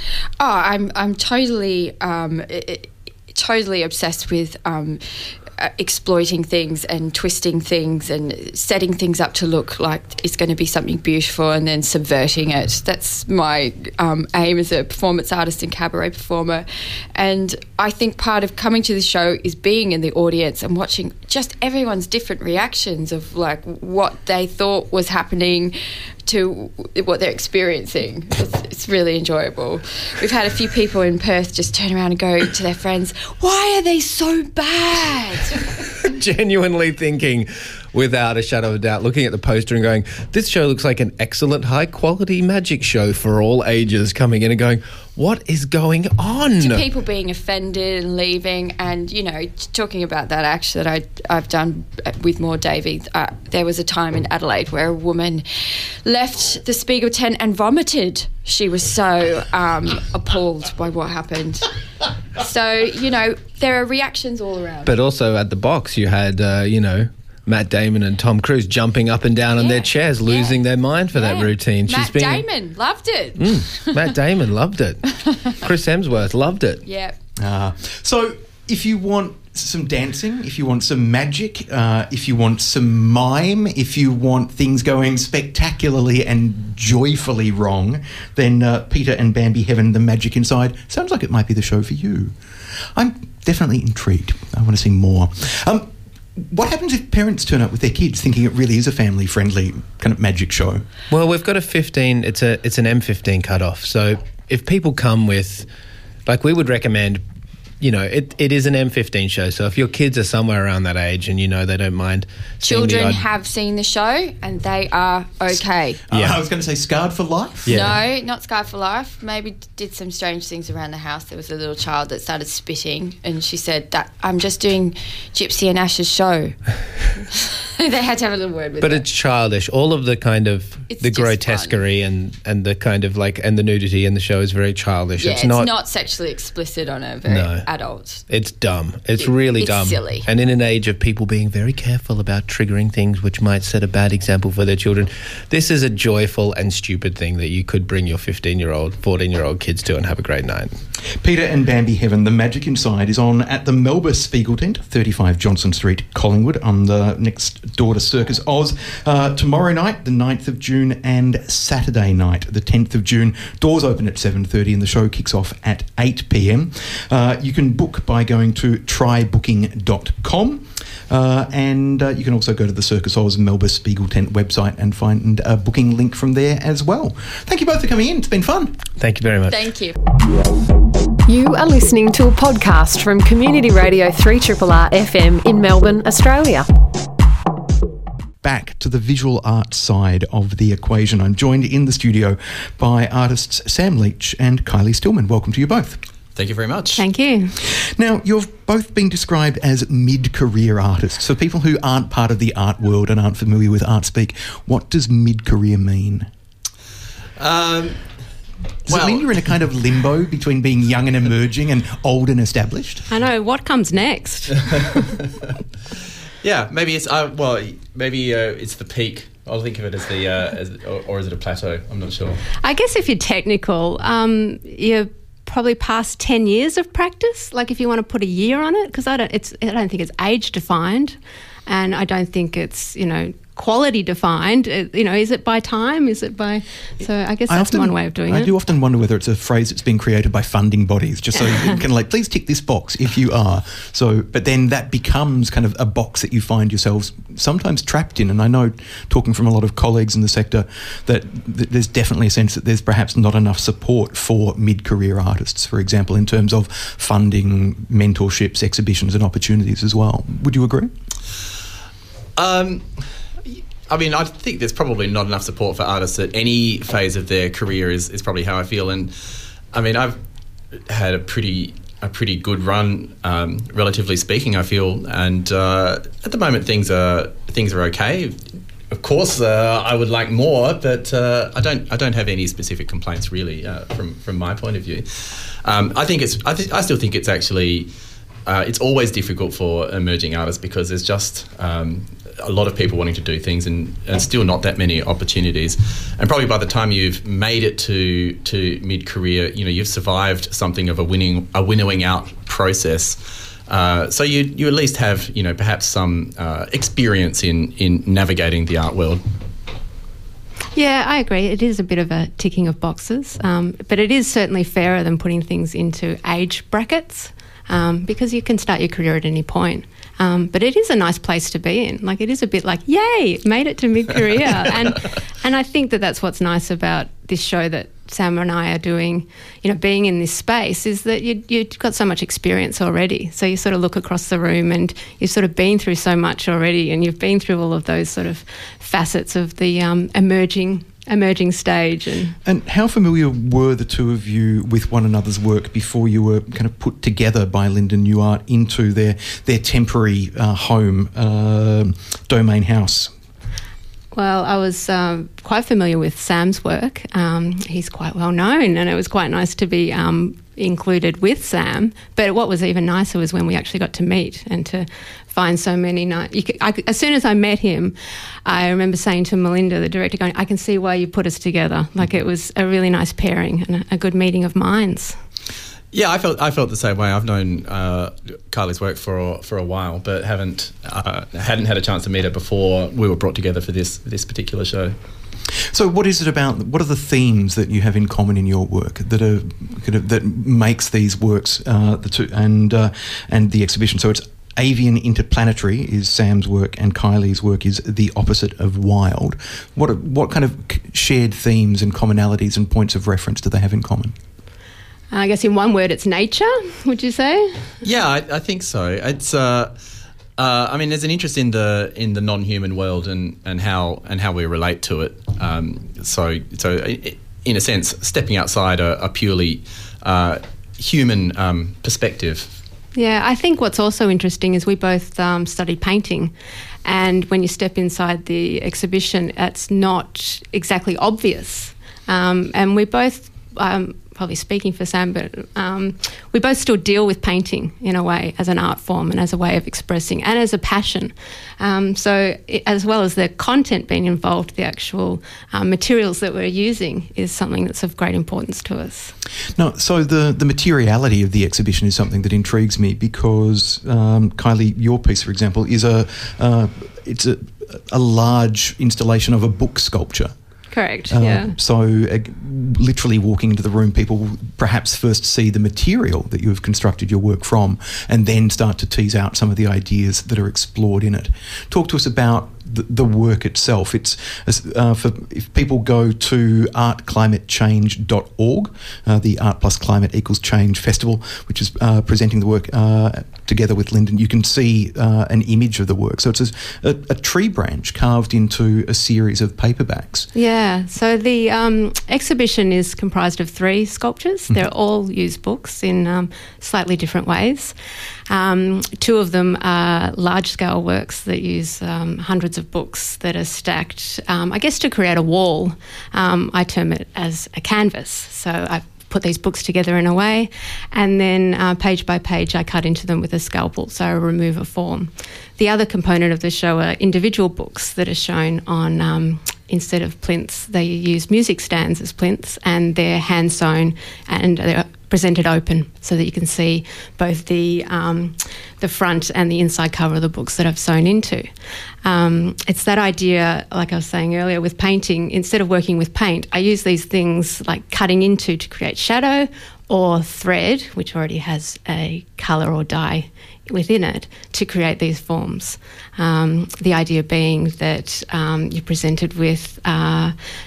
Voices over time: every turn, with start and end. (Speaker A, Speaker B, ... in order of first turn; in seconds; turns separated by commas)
Speaker A: 0.4-35.5, Speaker B: 36.0-46.9, Speaker A: 46.6-61.7, Speaker A: 62.4-64.9, Speaker B: 64.8-72.5, Speaker A: 69.5-70.6, Speaker A: 71.1-74.1, Speaker B: 73.4-75.0, Speaker A: 75.0-75.5, Speaker B: 75.6-76.8, Speaker A: 76.8-77.2, Speaker C: 77.4-92.3, Speaker C: 92.9-100.8, Speaker B: 101.1-105.7, Speaker B: 106.2-107.2, Speaker B: 107.8-113.2, Speaker A: 112.6-116.0, Speaker C: 116.1-117.9, Speaker B: 116.1-116.4, Speaker B: 117.7-118.0, Speaker A: 117.7-126.6, Speaker A: 127.8-129.1, Speaker B: 128.8-135.7, Speaker A: 130.9-131.8, Speaker A: 135.2-138.2, Speaker B: 137.3-137.7, Speaker B: 138.3-150.8, Speaker A: 139.2-140.3, Speaker C: 151.1-178.8, Speaker B: 179.0-179.7, Speaker A: 179.5-179.9, Speaker D: 181.3-186.7, Speaker C: 188.4-196.0, Speaker E: 196.3-197.0, Speaker F: 197.0-197.5, Speaker C: 197.6-206.3, Speaker E: 207.4-208.0, Speaker C: 208.8-213.1, Speaker E: 208.9-209.3, Speaker F: 213.1-214.6, Speaker E: 214.6-215.3, Speaker E: 216.4-222.4, Speaker F: 222.6-238.5, Speaker C: 237.5-260.9, Speaker F: 241.3-241.8, Speaker E: 262.4-262.9, Speaker E: 263.9-269.1, Speaker E: 269.7-270.2, Speaker E: 270.9-285.1, Speaker E: 285.6-287.9, Speaker E: 288.4-309.2, Speaker F: 310.7-342.4, Speaker C: 342.4-353.1, Speaker F: 354.1-375.2, Speaker E: 375.9-384.9, Speaker C: 385.7-404.1, Speaker F: 405.1-407.6, Speaker E: 407.8-409.7, Speaker E: 410.4-422.5, Speaker F: 422.9-426.3, Speaker F: 426.8-449.1, Speaker C: 449.6-460.3, Speaker F: 460.7-461.5, Speaker C: 461.1-490.3, Speaker F: 490.3-497.7, Speaker F: 498.3-531.5, Speaker F: 532.0-550.3